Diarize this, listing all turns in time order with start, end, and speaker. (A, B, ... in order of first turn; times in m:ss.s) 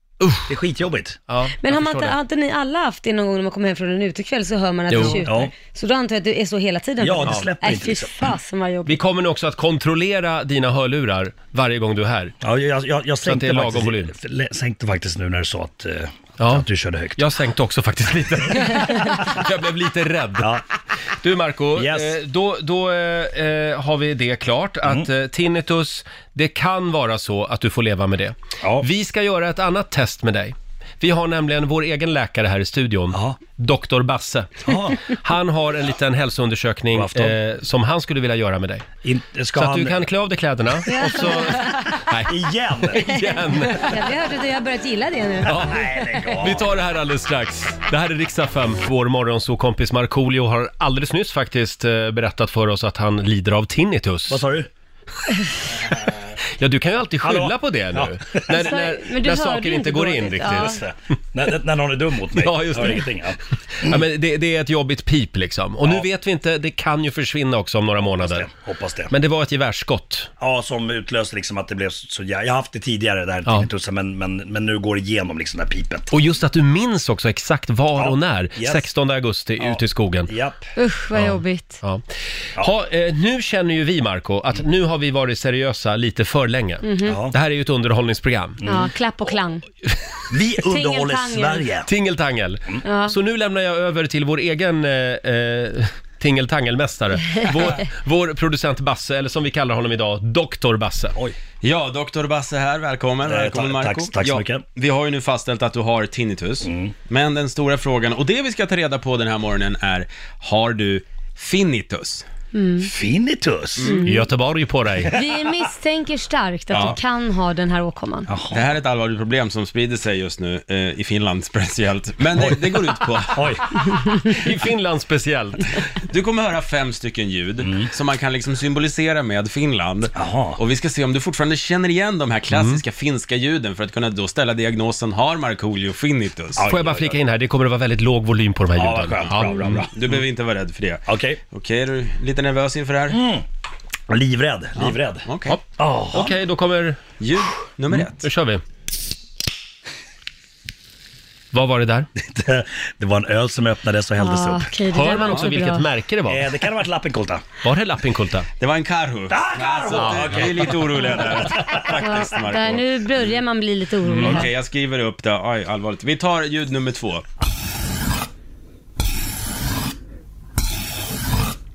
0:00.2-0:00.5 A
0:00.5-0:01.2 B
0:01.3-0:02.1 A
0:01.6-0:09.0 C
0:04.9-0:05.2 A
0:05.0-0:05.5 B
0:07.0-0:08.3 B
0:08.8-0:12.3 A
0:12.4-0:17.2 B
0:13.2-0:14.1 A
0:16.4-0:16.6 A
0:17.2-0:20.5 A
0:20.4-0:20.6 B
0:21.2-0:38.8 A
0:21.7-0:22.2 B
0:33.1-0:33.4 B
0:34.6-0:35.0 B
0:36.9-0:37.4 B
0:39.0-0:40.0 B
0:39.5-0:42.4 A
0:40.9-0:41.9 C
0:41.0-0:43.2 B
0:42.9-0:43.9 A
0:43.2-0:45.8 C
0:45.4-0:54.4 A
0:45.5-0:46.7 B
0:54.3-0:54.7 B
0:56.6-1:00.8 A
0:57.2-0:58.7 B
0:58.5-1:00.8 C
1:00.5-1:04.0 B
1:02.4-1:03.1 A
1:03.7-1:08.5 A
1:08.2-1:09.1 B
1:09.1-1:10.3 A
1:10.4-1:16.1 B
1:16.1-1:20.3 A
1:18.0-1:18.9 B
1:19.6-1:20.6 B
1:20.8-1:21.8 C
1:21.1-1:22.0 A
1:22.6-1:28.6 A
1:26.8-1:27.2 C
1:27.0-1:27.4 B
1:28.6-1:28.9 B
1:28.6-1:29.6 C
1:30.3-1:31.9 B
1:30.7-1:31.7 C
1:31.9-1:41.2 A
1:32.8-1:33.1 C
1:41.6-1:52.2 D
1:43.2-1:44.6 B
1:46.6-1:46.9 B
1:52.5-1:52.9 C
1:52.8-1:53.9 B
1:53.8-1:54.0 D
1:53.8-1:54.2 C
1:54.0-1:55.2 A
1:55.1-1:58.3 C
1:56.7-1:57.0 D
1:58.3-1:58.6 B
1:58.5-2:03.5 D
2:03.3-2:03.6 B
2:04.3-2:05.8 A
2:06.1-2:16.7 D
2:07.6-2:07.9 B
2:10.1-2:10.6 B
2:12.5-2:12.8 A
2:16.6-2:17.2 B
2:16.6-2:19.8 A
2:18.8-2:19.9 B
2:19.7-2:23.2 D
2:21.1-2:21.4 B
2:23.1-2:23.4 B
2:24.1-2:25.2 B
2:24.8-2:25.6 D
2:25.8-2:26.3 B
2:26.1-2:27.0 A
2:27.2-2:28.3 D
2:27.9-2:28.6 A
2:31.5-2:32.1 A
2:32.2-2:34.7 B
2:34.2-2:35.9 C
2:34.9-2:36.5 A
2:36.3-2:37.4 B
2:37.6-2:38.5 A
2:38.6-2:43.4 D
2:39.3-2:42.0 B
2:39.9-2:40.2 A
2:42.0-2:44.5 C
2:44.1-2:44.4 A
2:44.2-2:47.2 D